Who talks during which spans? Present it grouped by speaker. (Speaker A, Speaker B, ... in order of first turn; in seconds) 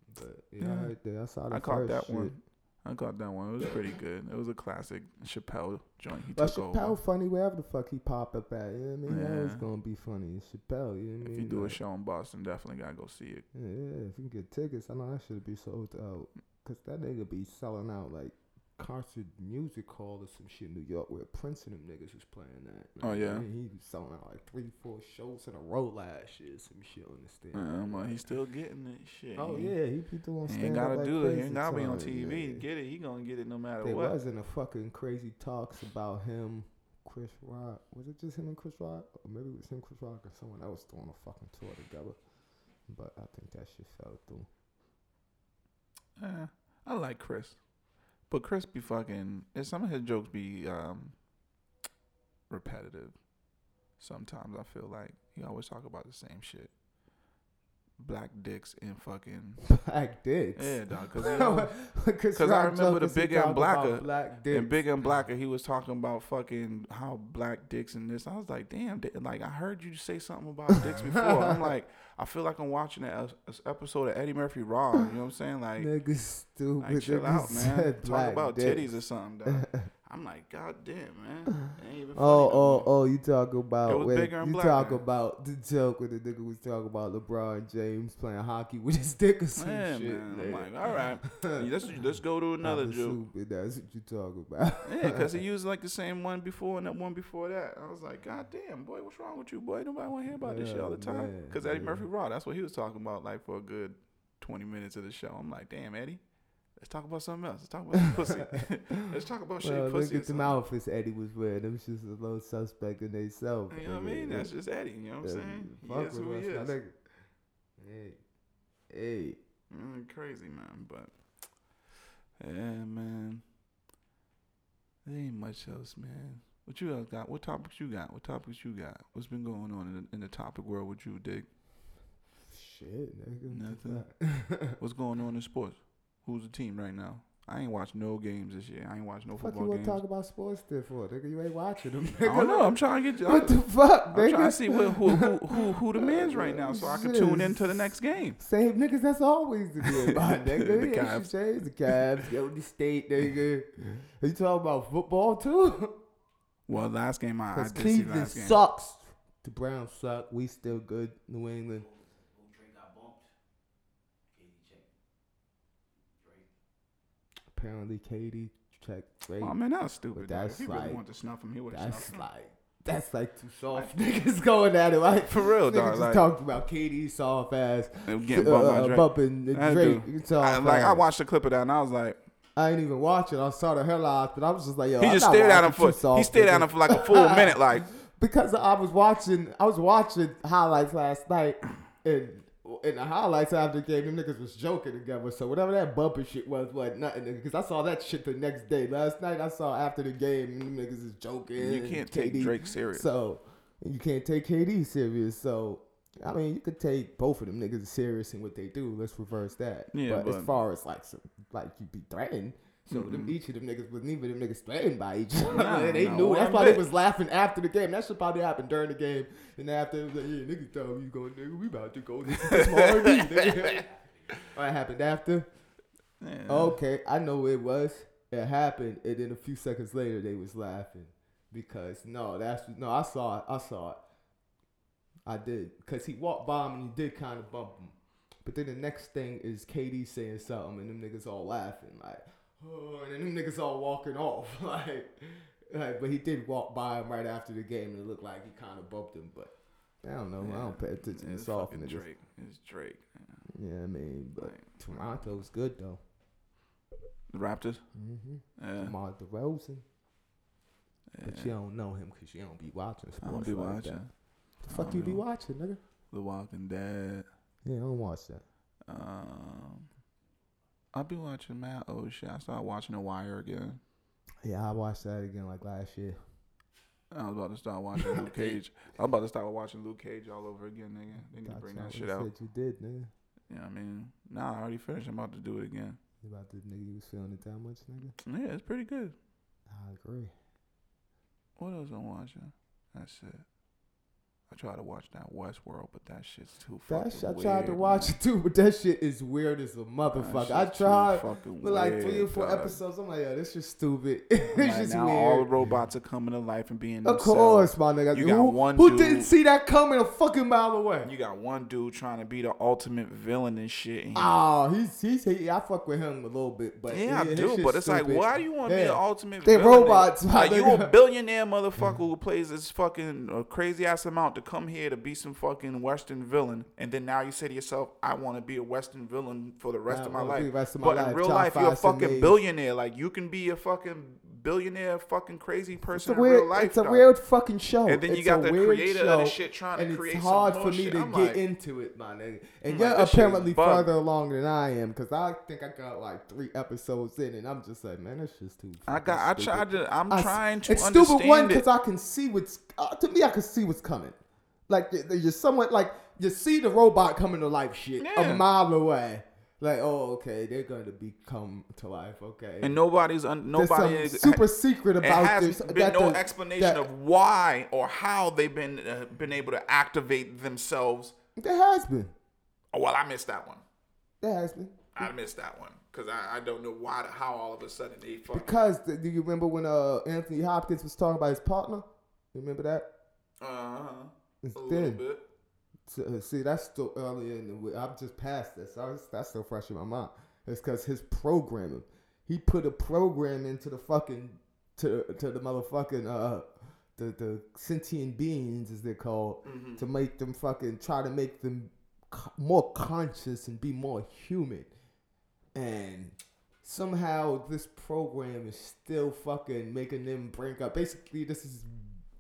Speaker A: 0.1-2.4, 6.3-11.8, 13.5-28.2, 29.4-32.7, 33.8-42.2, 42.9-44.5, 59.6-64.8, 70.9-71.6, 75.8-78.9, 79.5-79.9, 82.2-91.7, 92.6-95.4, 100.4-102.0, 108.0-108.7, 109.6-114.5, 115.2-117.0, 117.8-118.2, 118.9-119.4, 132.5-134.8, 139.4-156.0, 157.5-161.9, 167.5-169.6, 170.1-171.0, 171.7-181.1, 182.6-225.5, 226.5-234.0, 235.3-249.5, 250.0-252.1, 253.5-256.0, 257.9-259.8, 261.2-264.1, 264.6-265.8, 267.6-268.4, 274.4-276.2, 278.0-278.6, 281.3-283.1, 286.2-288.2, 289.7-290.3, 296.9-305.5, 307.1-311.1, 314.1-320.9, 329.9-332.4, 335.9-354.2, 354.7-362.8, 363.5-366.8, 371.4-372.1, 374.2-375.1, 378.3-382.9, 384.4-385.0, 385.9-404.7, 405.6-411.9
Speaker B: 0.6-0.9, 1.5-7.0, 9.1-9.7, 11.2-13.5, 23.0-23.5, 27.5-29.8, 30.5-34.2, 46.2-47.6, 48.3-51.1, 52.5-53.1, 54.0-56.7, 58.0-59.6, 60.6-61.7, 62.4-75.9, 76.8-82.9, 83.9-85.0, 89.6-93.2, 94.8-106.2, 106.8-110.6, 113.7-116.8, 119.7-121.1, 122.4-123.4, 125.0-131.5, 133.5-134.1, 134.8-140.0, 142.2-148.4, 150.1-151.3, 156.7-158.6, 169.4-172.3, 173.7-174.0, 175.3-176.2, 178.1-182.2, 185.0-187.9, 201.6-203.1, 209.9-210.5, 212.9-213.3, 215.4-216.8, 222.4-223.6, 226.2-226.8, 250.4-253.4, 254.4-255.3, 257.3-257.8, 258.6-258.9, 261.1-261.5, 263.2-264.1, 264.7-265.2, 266.1-267.3, 268.9-269.9, 270.9-273.8, 277.1-282.3, 283.5-286.0, 288.2-289.2, 291.6-293.4, 294.5-298.2, 300.2-302.8, 304.6-309.3, 311.0-314.3, 316.9-337.1, 337.9-341.4, 342.7-343.9, 348.9-351.7, 358.0-358.4, 362.6-364.4, 365.0-371.1, 372.7-373.6, 374.9-378.6, 383.4-385.2, 399.4-399.8
Speaker C: 161.8-163.3, 164.3-164.9, 166.2-166.5